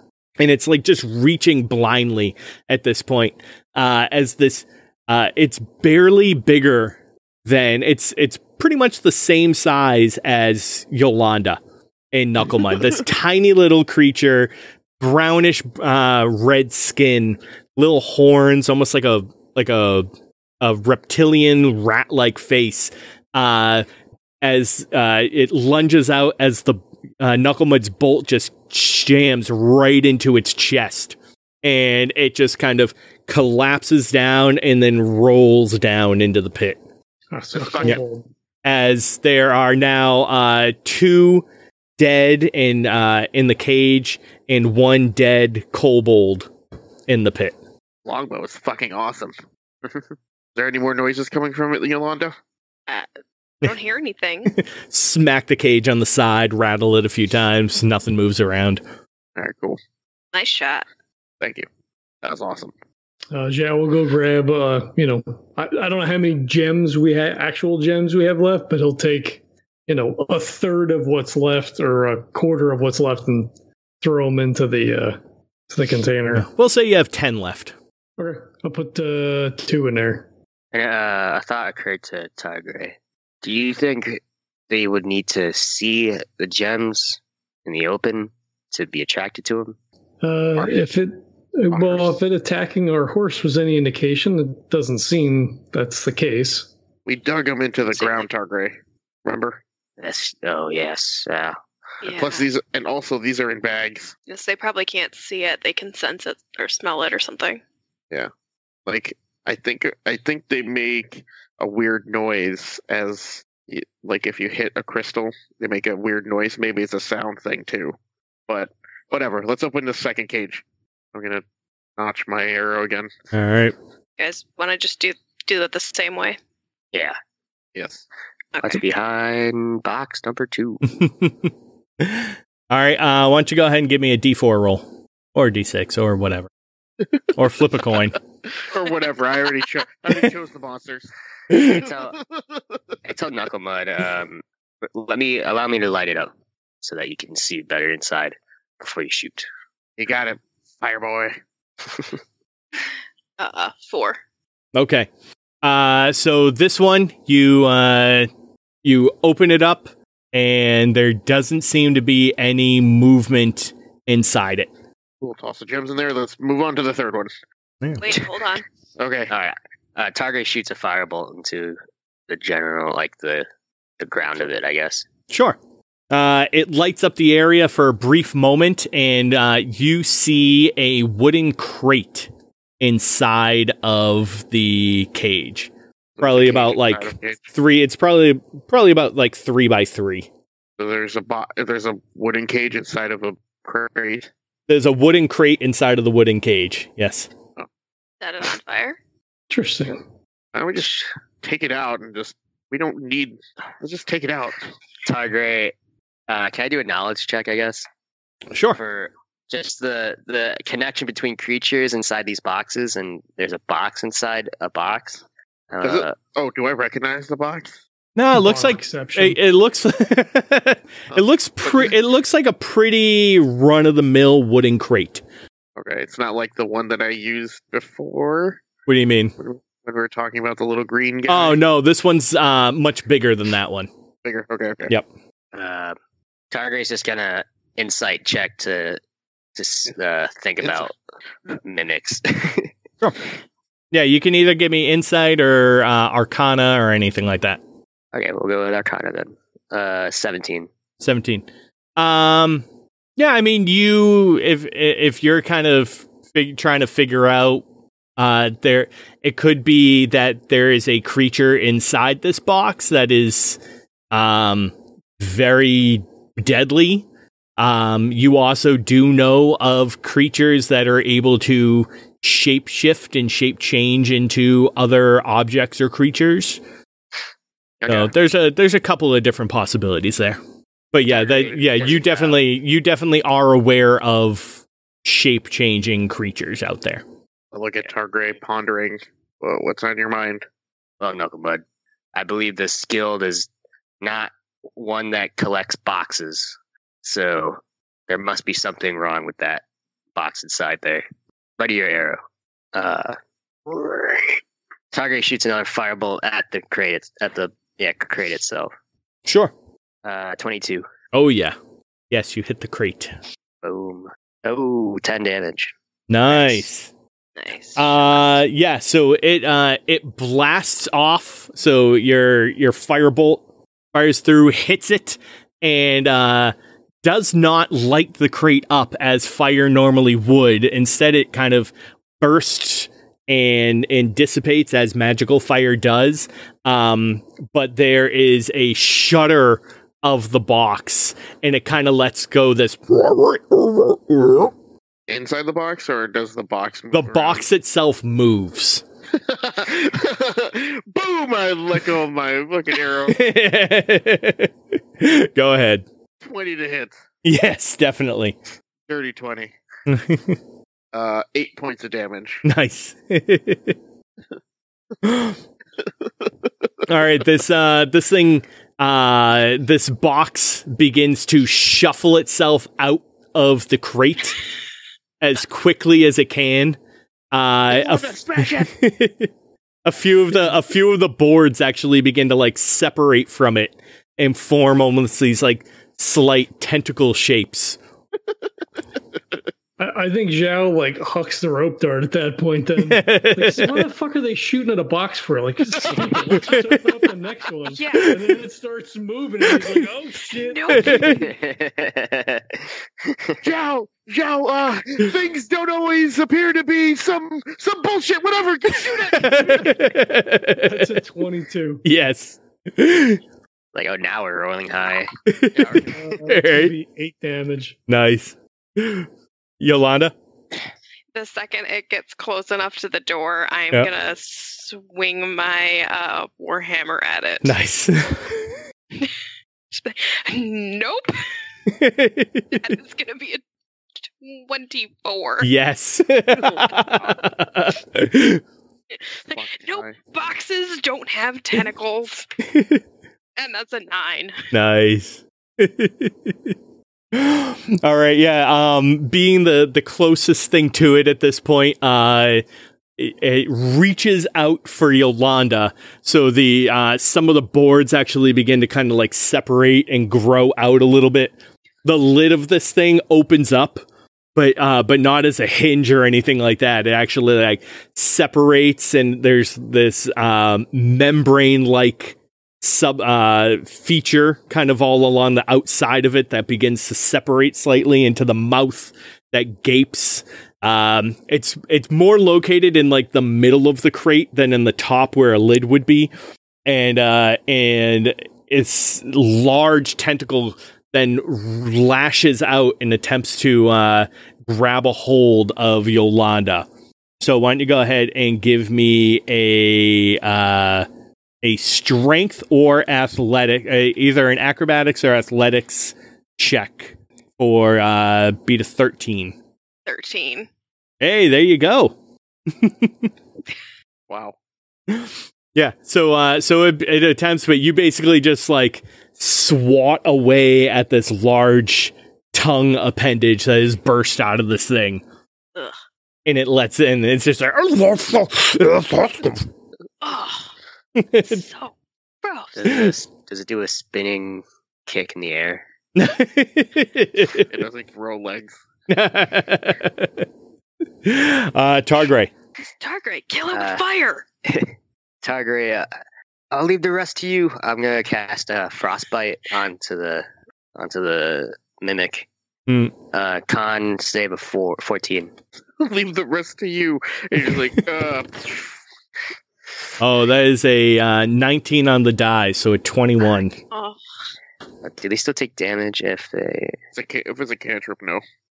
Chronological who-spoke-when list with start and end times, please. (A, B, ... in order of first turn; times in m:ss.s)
0:00.4-0:11.6 A
0:12.1-0:20.1 A
0:20.6-0:23.8 A
0:24.4-0:36.8 A
0:37.3-0:38.3 B
0:37.5-0:38.0 C
0:38.6-0:41.4 A
0:42.0-0:46.5 A
0:47.1-0:47.5 A
0:48.0-0:52.3 C
0:53.6-0:54.5 D
0:54.5-0:58.8 A
0:59.4-0:59.8 C
1:00.3-1:00.9 D
1:01.4-1:01.7 C
1:02.2-1:02.7 C
1:03.3-1:15.2 B
1:15.7-1:16.5 B
1:16.3-1:17.7 A
1:18.2-1:20.3 B
1:20.7-1:29.8 E
1:30.2-1:36.7 B
1:31.7-1:32.1 C
1:37.0-1:39.6 C
1:40.0-1:41.6 E
1:42.0-1:42.5 D
1:42.1-1:44.1 C
1:44.3-1:47.6 D
1:48.9-1:57.9 C
1:58.5-2:01.4 C
2:02.0-2:03.1 C
2:03.3-2:03.7 A
2:04.2-2:06.4 D
2:07.7-2:08.0 C
2:08.5-2:08.8 D
2:08.6-2:10.8 E
2:10.9-2:16.5 A
2:17.3-2:18.2 A
2:18.6-2:21.1 C
2:21.5-2:21.8 A
2:21.6-2:22.2 E
2:21.6-2:23.0 C
2:23.0-2:29.5 E
2:30.0-2:31.4 C
2:33.4-2:34.2 D
2:34.7-2:35.1 A
2:35.6-2:38.3 A
2:38.8-2:44.7 A
2:45.2-2:47.3 C
2:47.8-2:48.2 A
2:48.0-2:48.6 D
2:49.0-2:49.3 C
2:49.3-2:51.8 E
2:52.3-2:53.5 E
2:54.0-2:55.0 E
2:55.3-2:55.6 A
2:56.1-3:02.3 A
3:02.8-3:10.3 A
3:06.2-3:07.4 C
3:10.8-3:14.3 C
3:14.7-3:17.3 A
3:18.2-3:19.0 D
3:19.5-3:20.0 B
3:20.5-3:24.6 C
3:25.0-3:25.7 E
3:26.3-3:27.9 E
3:28.5-3:28.8 A
3:28.7-3:36.2 E
3:35.8-3:37.8 C
3:38.2-3:45.2 A
3:38.3-3:39.4 B
3:41.1-3:41.9 C
3:45.8-3:48.6 C
3:48.9-3:49.3 A
3:49.4-3:51.6 C
3:51.3-3:53.9 A
3:54.2-3:54.9 C
3:55.5-3:56.0 E
3:56.5-3:59.0 E
3:59.6-4:00.9 E
4:00.6-4:00.9 C
4:01.6-4:02.7 E
4:03.9-4:07.6 A
4:08.1-4:10.7 E
4:11.0-4:11.4 A
4:12.0-4:12.6 A
4:13.2-4:17.6 A
4:18.2-4:23.6 A
4:24.1-4:27.0 A
4:27.6-4:36.6 A
4:37.8-4:38.1 C
4:37.9-4:40.4 A
4:40.9-4:47.0 A
4:41.1-4:41.9 C
4:47.5-4:50.4 C
4:51.0-4:51.6 E
4:52.1-4:53.5 E
4:54.0-4:59.6 E
5:00.1-5:01.0 E
5:01.6-5:02.2 E
5:02.7-5:03.2 E
5:03.7-5:04.4 E
5:04.9-5:08.7 E
5:09.2-5:09.5 A
5:10.0-5:10.9 E
5:11.1-5:11.6 A
5:12.1-5:13.2 A
5:13.6-5:15.7 E
5:16.1-5:16.9 A
5:17.4-5:18.3 D
5:17.8-5:23.4 A
5:23.9-5:44.5 A
5:45.1-5:47.4 C
5:46.9-5:48.8 A
5:49.1-5:53.2 C
5:53.1-5:55.8 A
5:56.2-5:57.0 C
5:57.2-5:58.3 A
5:58.9-5:59.5 C
5:59.9-6:00.4 A
6:00.9-6:02.4 C
6:02.4-6:03.8 A
6:05.0-6:05.4 A
6:06.9-6:14.4 A
6:15.2-6:16.8 A
6:17.3-6:19.3 A
6:17.7-6:18.7 C
6:19.8-6:27.8 A
6:29.8-6:41.2 B
6:32.8-6:33.8 A
6:36.3-6:36.6 A
6:37.6-6:38.2 D
6:39.5-6:39.8 A
6:40.3-6:41.2 D
6:40.7-6:41.2 A
6:41.1-6:43.4 E
6:43.4-6:49.7 C
6:48.9-6:50.9 A
6:50.6-6:51.8 B
6:51.8-6:53.2 A
6:53.7-6:55.1 E
6:55.3-6:56.7 A
6:55.5-6:56.0 C
6:55.9-6:57.8 B
6:57.9-6:59.1 A
6:59.6-7:00.1 A
7:01.1-7:07.5 D
7:07.4-7:08.6 A
7:09.7-7:11.2 D
7:11.7-7:12.8 A
7:12.5-7:13.4 D
7:14.0-7:15.5 D
7:15.4-7:18.4 A
7:16.4-7:17.2 C
7:18.9-7:22.3 D
7:19.3-7:20.0 C
7:22.4-7:22.8 A
7:23.4-7:24.4 D
7:24.5-7:26.5 A
7:27.1-7:32.4 A
7:33.0-7:43.8 A
7:44.4-8:06.1 A
8:06.6-8:16.7 A
8:17.2-8:20.9 A
8:21.4-8:29.4 A
8:29.8-8:30.5 D
8:31.0-8:31.9 A
8:32.5-8:33.1 A
8:34.1-8:34.4 C
8:34.9-8:45.0 A
8:46.2-8:49.4 A
8:50.0-8:50.5 D
8:51.0-8:51.4 A
8:51.2-8:52.6 D
8:52.5-8:55.6 E
8:52.6-8:52.9 A
8:56.0-8:57.5 A
8:57.4-8:58.6 C
8:58.9-9:00.2 A
9:01.0-9:02.3 A
9:02.6-9:04.2 D
9:03.5-9:03.8 E
9:04.4-9:05.9 E
9:06.5-9:12.3 E
9:12.7-9:12.9 A
9:13.1-9:15.3 E
9:15.8-9:18.8 C
9:20.0-9:23.6 A
9:23.7-9:24.0 D
9:24.8-9:26.8 E
9:26.9-9:28.2 C